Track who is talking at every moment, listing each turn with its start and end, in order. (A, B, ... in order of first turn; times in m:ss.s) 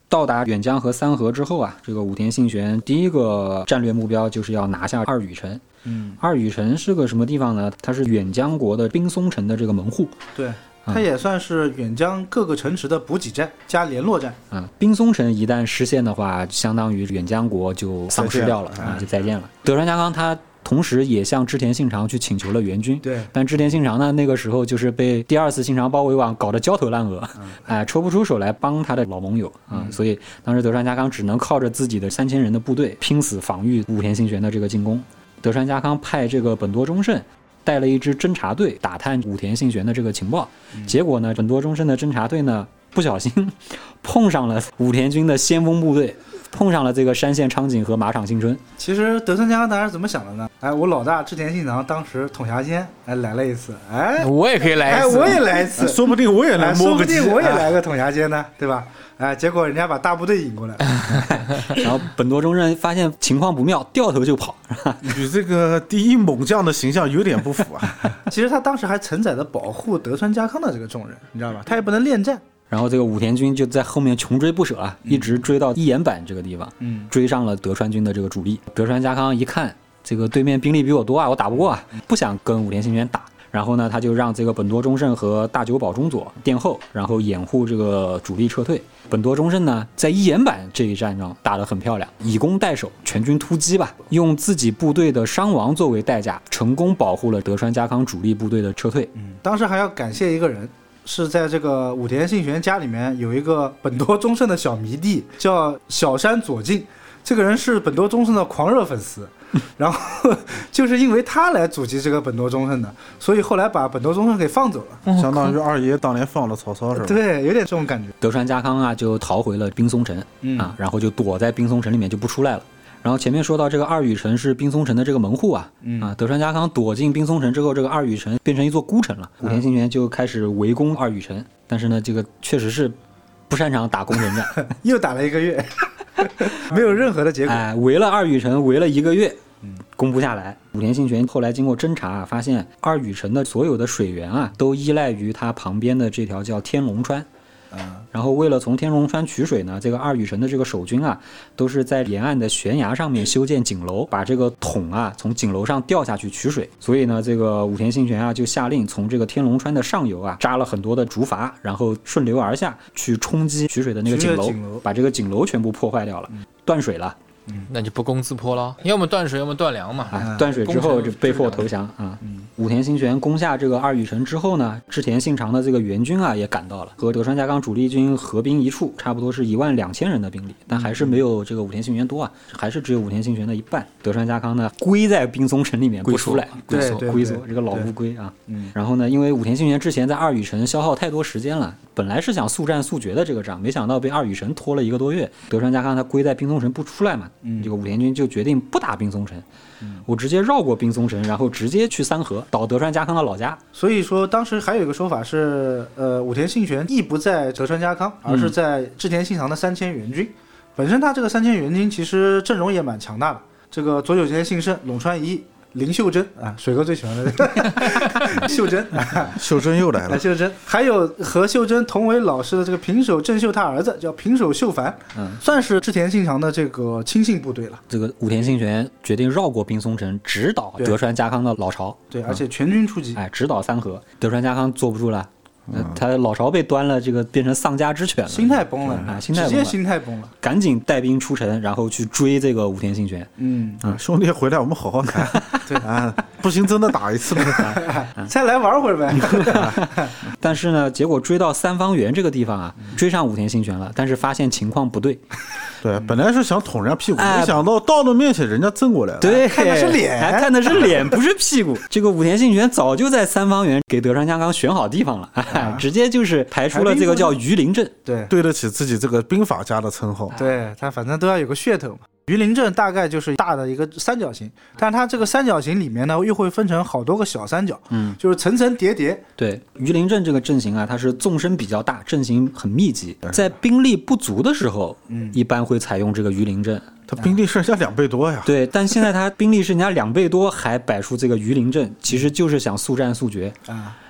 0:00.1-0:05.6 A
0:05.8-0:06.2 B
0:06.2-0:10.2 A
0:10.3-0:14.4 B
0:14.5-0:48.6 A
0:18.1-0:19.0 C
0:18.8-0:19.0 B
0:23.0-0:23.3 B
0:48.8-1:01.0 B
0:54.2-0:55.5 D
0:55.7-0:57.7 C
1:01.1-1:05.2 A
1:05.0-1:08.1 C
1:08.1-1:12.4 B
1:12.7-1:39.1 A
1:16.8-1:17.1 B
1:39.1-1:55.0 B
1:55.0-1:55.6 D
1:55.1-1:57.2 C
1:56.9-1:58.1 B
1:58.2-2:13.0 A
2:00.4-2:00.7 B
2:05.8-2:06.1 B
2:13.5-2:14.7 A
2:14.7-2:17.6 B
2:17.4-2:19.4 A
2:20.0-2:27.3 A
2:27.7-2:28.0 B
2:28.1-2:47.2 A
2:44.0-2:44.8 B
2:47.7-2:51.7 D
2:50.1-3:19.4 A
3:00.8-3:01.2 B
3:06.0-3:07.1 D
3:06.7-3:07.9 B
3:08.5-3:08.7 B
3:17.4-3:17.7 B
3:20.0-3:23.6 A
3:23.7-3:39.4 B
3:28.3-3:28.5 A
3:39.1-3:40.3 C
3:40.0-3:47.8 B
3:45.1-3:45.4 A
3:47.9-3:52.0 A
3:52.1-3:53.2 B
3:53.2-3:59.8 A
3:55.7-3:56.0 C
3:58.3-4:00.3 B
4:00.4-4:03.3 A
4:03.4-4:03.8 B
4:03.8-4:08.0 C
4:05.3-4:05.6 A
4:07.5-4:10.1 B
4:07.6-4:08.3 A
4:09.2-4:15.2 A
4:15.8-4:19.4 C
4:17.2-4:17.6 A
4:19.2-4:27.9 A
4:19.2-4:21.1 B
4:25.5-4:25.8 B
4:26.7-4:27.4 B
4:28.0-4:28.3 B
4:28.3-4:30.4 C
4:30.3-4:39.2 B
4:37.9-4:38.2 A
4:39.4-4:46.9 A
4:45.1-4:45.4 B
4:47.1-4:48.5 C
4:48.4-4:53.6 A
4:53.7-4:54.0 B